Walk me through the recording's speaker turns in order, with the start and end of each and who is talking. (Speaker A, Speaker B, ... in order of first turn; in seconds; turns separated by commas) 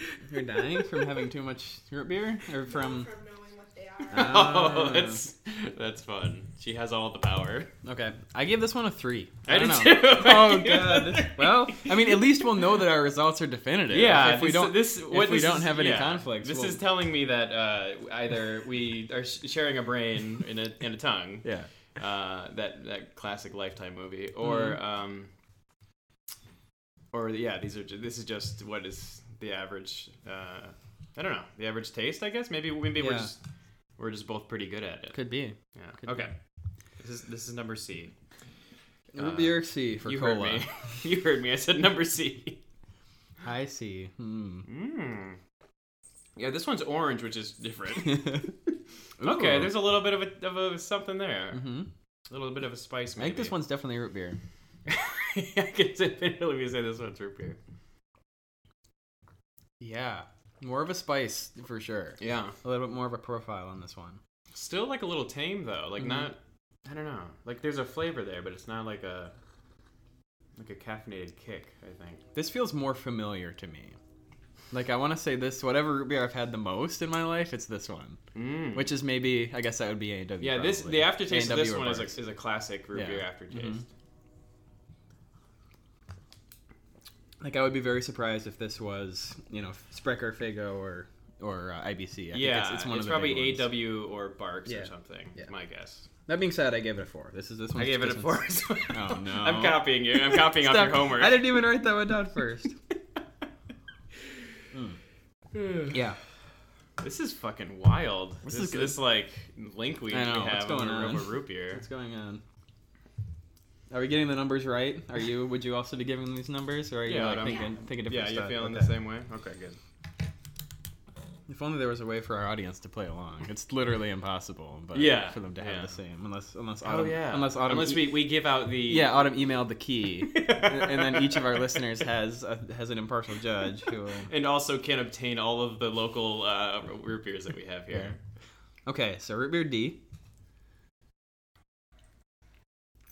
Speaker A: 0.2-3.1, Speaker B: 2.6-4.5, Speaker A: 4.1-5.2, Speaker C: 4.1-7.7, Speaker A: 7.8-16.8, Speaker C: 9.5-12.4, Speaker C: 13.9-25.3, Speaker A: 21.4-21.7, Speaker A: 24.4-24.8, Speaker C: 27.1-33.4, Speaker A: 33.0-33.3, Speaker C: 34.0-35.2, Speaker A: 35.1-36.3, Speaker C: 35.8-36.3, Speaker C: 37.0-38.1, Speaker A: 39.1-40.7, Speaker C: 39.1-42.6, Speaker A: 43.4-44.7, Speaker C: 44.7-45.4, Speaker C: 46.4-48.5, Speaker A: 48.1-48.5, Speaker A: 49.2-49.8, Speaker C: 49.2-51.6, Speaker A: 51.5-51.9, Speaker C: 52.3-53.6, Speaker A: 53.2-54.4, Speaker C: 54.9-57.6, Speaker A: 59.8-64.2, Speaker C: 62.2-62.5, Speaker C: 64.5-69.3, Speaker A: 66.0-66.3, Speaker C: 70.6-72.2, Speaker A: 72.3-74.0, Speaker A: 74.7-78.2, Speaker C: 78.3-78.9, Speaker A: 78.7-82.2, Speaker C: 80.4-83.9, Speaker A: 82.9-83.8, Speaker A: 87.4-93.7, Speaker C: 92.3-96.1, Speaker A: 94.7-95.5, Speaker A: 96.3-102.8, Speaker C: 97.8-101.5, Speaker C: 105.5-106.0, Speaker A: 105.9-106.2, Speaker C: 107.0-111.8, Speaker A: 108.5-109.0, Speaker A: 110.1-112.4, Speaker A: 113.9-118.9, Speaker C: 117.0-119.8, Speaker B: 117.5-117.7, Speaker A: 121.5-128.3, Speaker C: 124.9-125.9, Speaker C: 126.8-129.1, Speaker A: 128.9-134.3, Speaker C: 130.3-131.8, Speaker C: 134.3-138.2, Speaker A: 138.9-140.0